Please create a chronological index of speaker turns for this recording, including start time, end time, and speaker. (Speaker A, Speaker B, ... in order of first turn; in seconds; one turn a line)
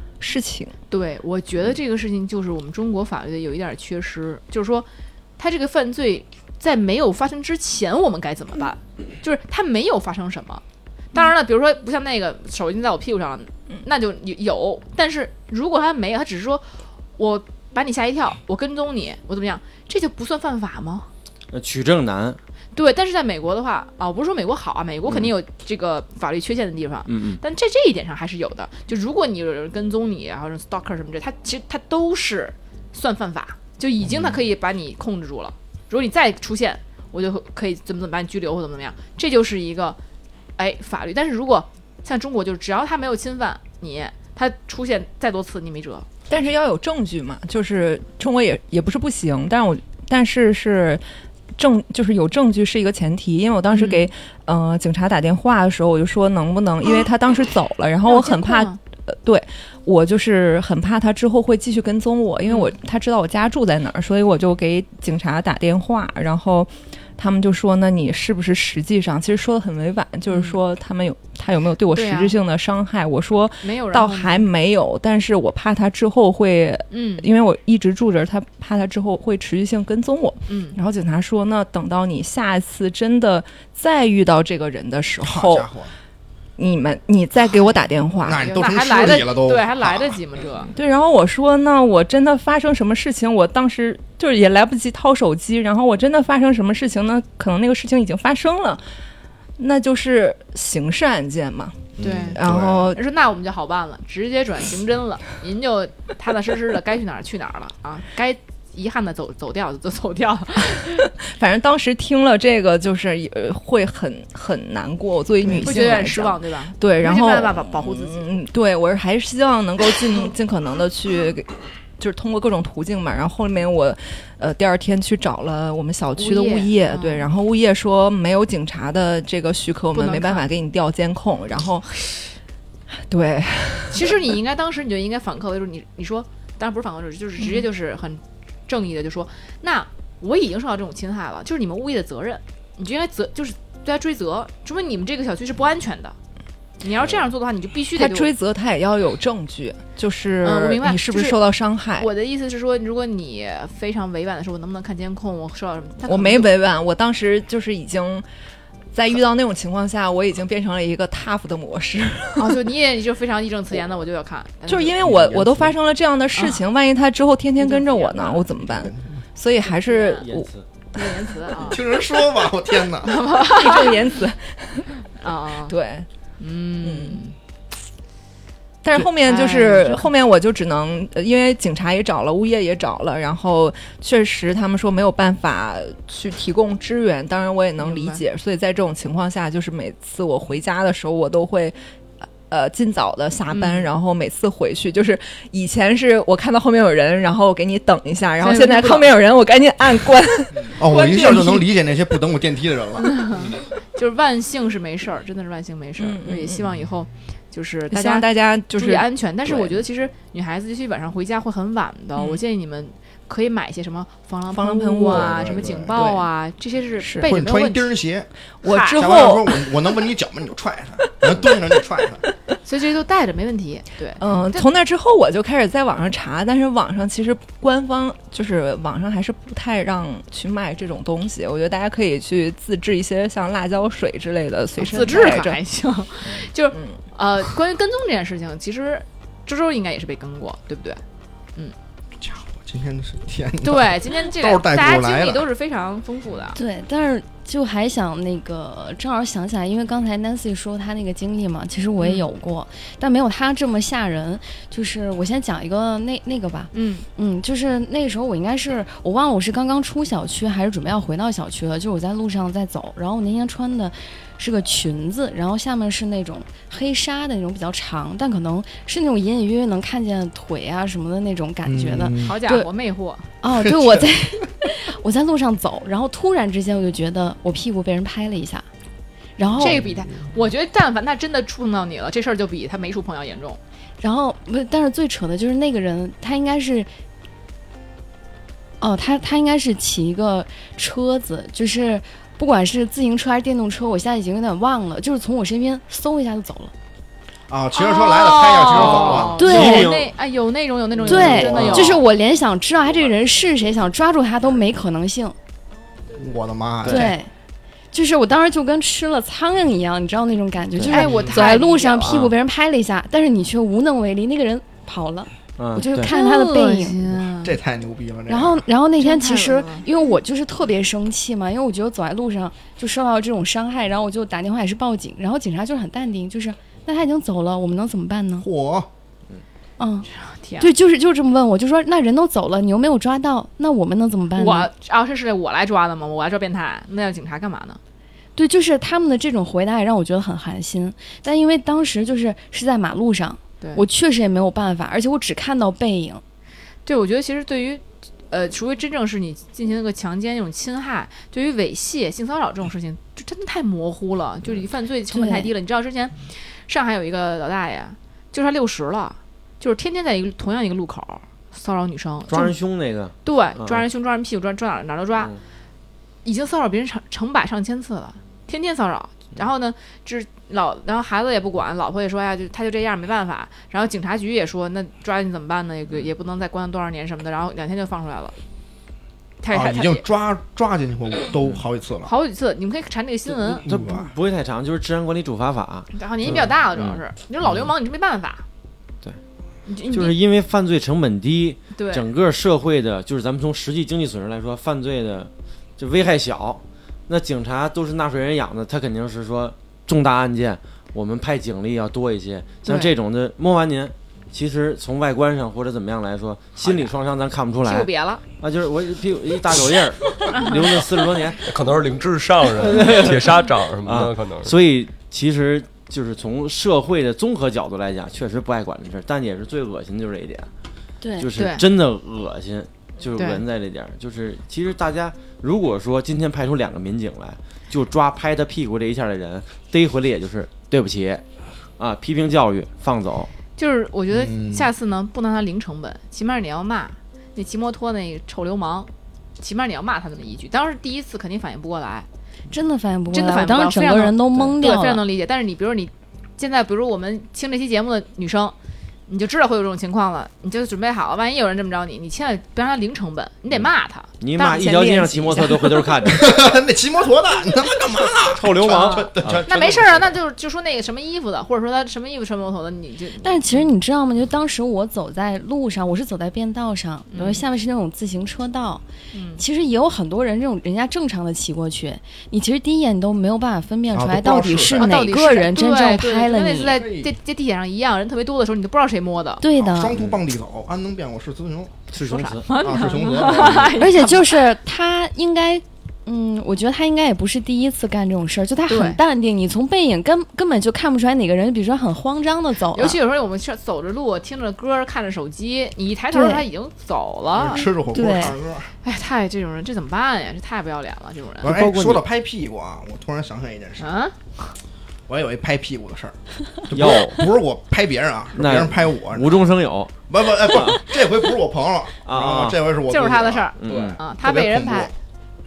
Speaker A: 0.2-0.7
Speaker B: 0.9-4.9
Speaker B: 5.4-10.6
Speaker B: 11.1-21.1
Speaker C: 21.5-22.4
Speaker B: 22.7-40.0
Speaker C: 27.1-27.4
Speaker B: 40.6-46.1
Speaker A: 46.3-51.0
Speaker A: 51.5-85.7
Speaker B: 53.7-54.0
Speaker B: 58.0-58.8
Speaker B: 70.3-70.6
Speaker B: 71.9-72.4
Speaker B: 73.6-74.5
Speaker B: 76.9-77.3
Speaker B: 80.5-80.8
Speaker D: 85.2-85.9
Speaker A: 86.6-88.5
Speaker D: 88.2-90.2
Speaker B: 88.4-90.7
Speaker A: 90.7-98.8
Speaker A: 99.6-103.0
Speaker D: 102.0-103.0
Speaker B: 102.0-102.4
Speaker B: 102.9-111.1
Speaker A: 111.2-132.2
Speaker B: 115.4-118.3
Speaker B: 126.2-127.3
Speaker B: 129.9-130.4
Speaker A: 133.0-134.3
Speaker B: 133.9-146.1
Speaker B: 146.8-148.3
Speaker A: 147.9-152.1
Speaker B: 150.4-151.4
Speaker B: 152.0-156.5
Speaker A: 156.0-158.2
Speaker A: 158.9-162.6
Speaker B: 162.4-165.1
Speaker A: 164.7-171.3
Speaker D: 165.0-165.7
Speaker B: 166.3-166.6
Speaker B: 167.6-168.5
Speaker D: 168.6-169.2
Speaker B: 169.6-170.2
Speaker C: 170.2-170.6
Speaker B: 170.9-171.8
Speaker D: 171.6-173.2
Speaker B: 173.0-174.0
Speaker A: 173.4-174.9
Speaker B: 175.2-175.7
Speaker A: 175.7-176.1
Speaker B: 176.4-177.3
Speaker A: 176.8-177.2
Speaker A: 178.8-191.8
Speaker B: 178.9-180.1
Speaker B: 187.8-188.2
Speaker A: 192.5-201.6
Speaker B: 193.5-193.9
Speaker B: 198.4-199.2
Speaker D: 200.7-203.1
Speaker B: 203.0-217.9
Speaker A: 206.0-206.7
Speaker A: 207.9-209.8
Speaker A: 214.5-216.3
Speaker D: 215.1-216.1
Speaker A: 217.0-217.3
Speaker D: 217.2-218.3
Speaker A: 218.6-219.7
Speaker B: 218.6-219.0
Speaker D: 218.8-222.2
Speaker B: 222.6-224.7
Speaker A: 224.2-235.6
Speaker B: 234.8-241.0
Speaker A: 236.7-237.0
Speaker D: 242.2-245.4
Speaker B: 243.6-246.6
Speaker E: 246.5-272.7
Speaker B: 252.0-252.2
Speaker B: 256.7-257.1
Speaker D: 271.6-272.4
Speaker B: 272.2-273.3
Speaker E: 273.4-278.6
Speaker D: 273.5-274.2
Speaker E: 279.4-279.8
Speaker D: 279.6-280.0
Speaker B: 279.6-283.6
Speaker E: 284.0-286.9
Speaker E: 288.8-296.7
Speaker D: 297.5-299.4
Speaker B: 297.8-302.0
Speaker C: 298.7-300.1
Speaker E: 299.4-299.9
Speaker E: 301.1-305.3
Speaker C: 301.1-302.0
Speaker D: 301.3-302.0
Speaker D: 306.2-307.2
Speaker C: 306.8-307.2
Speaker E: 306.9-307.3
Speaker E: 307.9-317.0
Speaker C: 310.8-311.3
Speaker B: 310.9-312.1
Speaker C: 312.0-312.3
Speaker C: 315.6-316.1
Speaker B: 315.9-317.5
Speaker D: 317.4-318.7
Speaker E: 318.3-328.5
Speaker B: 319.0-319.9
Speaker D: 328.4-328.9
Speaker E: 329.8-330.1
Speaker B: 330.1-330.7
Speaker E: 330.6-334.7
Speaker B: 334.3-337.8
Speaker E: 338.4-346.2
Speaker B: 346.9-362.6
Speaker E: 355.1-355.5
Speaker C: 362.3-363.8
Speaker B: 363.2-365.3
Speaker B: 366.2-378.3
Speaker B: 379.4-380.0
Speaker D: 379.5-382.1
Speaker B: 382.0-383.6
Speaker C: 383.4-387.0
Speaker D: 383.6-384.1
Speaker B: 385.9-388.4
Speaker B: 389.6-390.1
Speaker C: 389.9-411.5
Speaker B: 391.7-392.0
Speaker B: 402.6-402.9
Speaker B: 407.6-408.2
Speaker B: 410.3-410.8
Speaker F: 411.4-414.5
Speaker C: 412.6-420.5
Speaker E: 421.0-421.3
Speaker C: 421.2-431.2
Speaker B: 421.4-421.6
Speaker B: 423.1-423.4
Speaker C: 431.8-433.3
Speaker B: 433.6-442.1
Speaker D: 434.1-434.7
Speaker E: 442.5-445.0
Speaker B: 443.1-448.5
Speaker B: 449.1-454.1
Speaker C: 454.2-456.4
Speaker A: 454.4-456.0
Speaker D: 456.1-460.1
Speaker C: 458.2-459.9
Speaker B: 458.7-463.7
Speaker E: 463.2-468.8
Speaker B: 467.1-467.4
Speaker B: 469.1-469.4
Speaker E: 469.4-476.8
Speaker D: 473.9-475.0
Speaker B: 474.8-479.4
Speaker D: 476.7-477.1
Speaker E: 479.4-479.9
Speaker D: 479.5-481.8
Speaker C: 479.9-480.2
Speaker C: 481.9-482.5
Speaker B: 482.0-484.5
Speaker D: 482.6-483.7
Speaker C: 483.2-483.7
Speaker E: 483.8-493.0
Speaker B: 488.7-489.0
Speaker B: 492.7-497.6
Speaker E: 496.1-496.4
Speaker D: 497.3-498.7
Speaker E: 497.9-498.4
Speaker B: 498.8-501.5
Speaker C: 501.4-502.0
Speaker D: 501.4-503.9
Speaker B: 503.8-504.2
Speaker D: 505.1-509.4
Speaker C: 506.7-507.2
Speaker C: 508.3-510.8
Speaker D: 510.1-514.9
Speaker C: 512.0-512.6
Speaker B: 512.9-514.9
Speaker C: 513.6-514.0